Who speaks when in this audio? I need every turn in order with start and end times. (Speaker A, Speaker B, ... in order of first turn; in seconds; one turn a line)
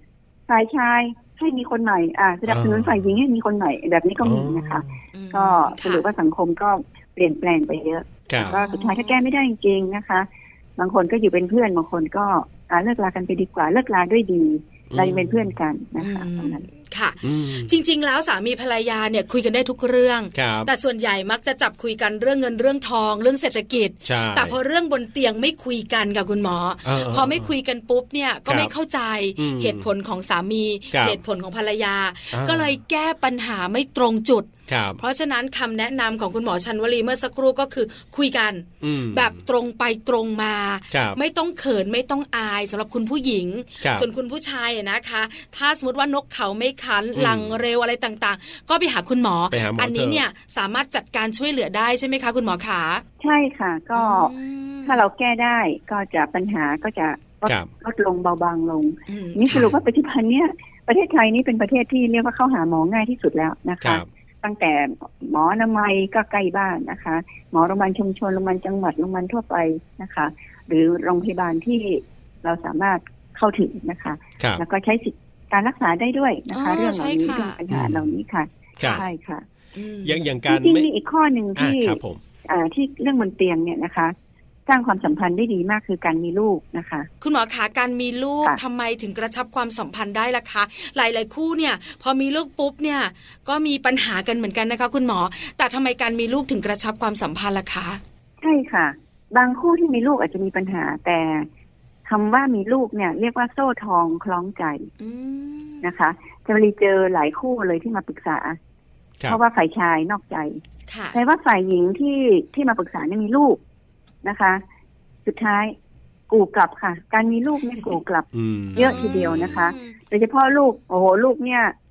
Speaker A: 0.5-16.6
Speaker B: 2.5-3.1
Speaker B: 4.2-5.0
Speaker C: 5.1-6.1
Speaker B: 8.3-8.6
Speaker C: 8.4-9.2
Speaker B: 14.9-15.6
Speaker C: 16.0-53.0
Speaker B: 17.2-17.7
Speaker B: 20.3-20.7
Speaker B: 24.1-24.6
Speaker B: 26.8-27.5
Speaker B: 28.5-28.7
Speaker B: 29.4-29.9
Speaker B: 30.9-31.2
Speaker B: 32.3-32.8
Speaker B: 34.7-35.0
Speaker B: 38.8-39.4
Speaker B: 40.9-41.2
Speaker B: 43.8-44.1
Speaker B: 47.1-47.6
Speaker B: 49.5-50.2
Speaker A: 53.2-54.3
Speaker C: 54.0-55.0
Speaker A: 54.9-79.5
Speaker B: 57.5-57.7
Speaker C: 59.1-59.7
Speaker B: 59.5-59.8
Speaker C: 76.5-77.6
Speaker B: 77.7-78.1
Speaker B: 78.8-79.0
Speaker C: 78.8-79.1
Speaker C: 79.8-80.2
Speaker B: 80.0-80.9
Speaker A: 80.5-84.2
Speaker B: 81.6-82.2
Speaker A: 84.7-87.1
Speaker C: 87.2-98.0
Speaker A: 98.4-101.5
Speaker A: 102.1-104.9
Speaker C: 105.0-105.8
Speaker A: 105.8-108.6
Speaker A: 109.3-110.6
Speaker C: 110.9-111.2
Speaker A: 111.1-113.6
Speaker A: 114.2-114.6
Speaker A: 115.2-115.8
Speaker A: 116.3-121.7
Speaker B: 118.3-119.6
Speaker C: 118.8-120.0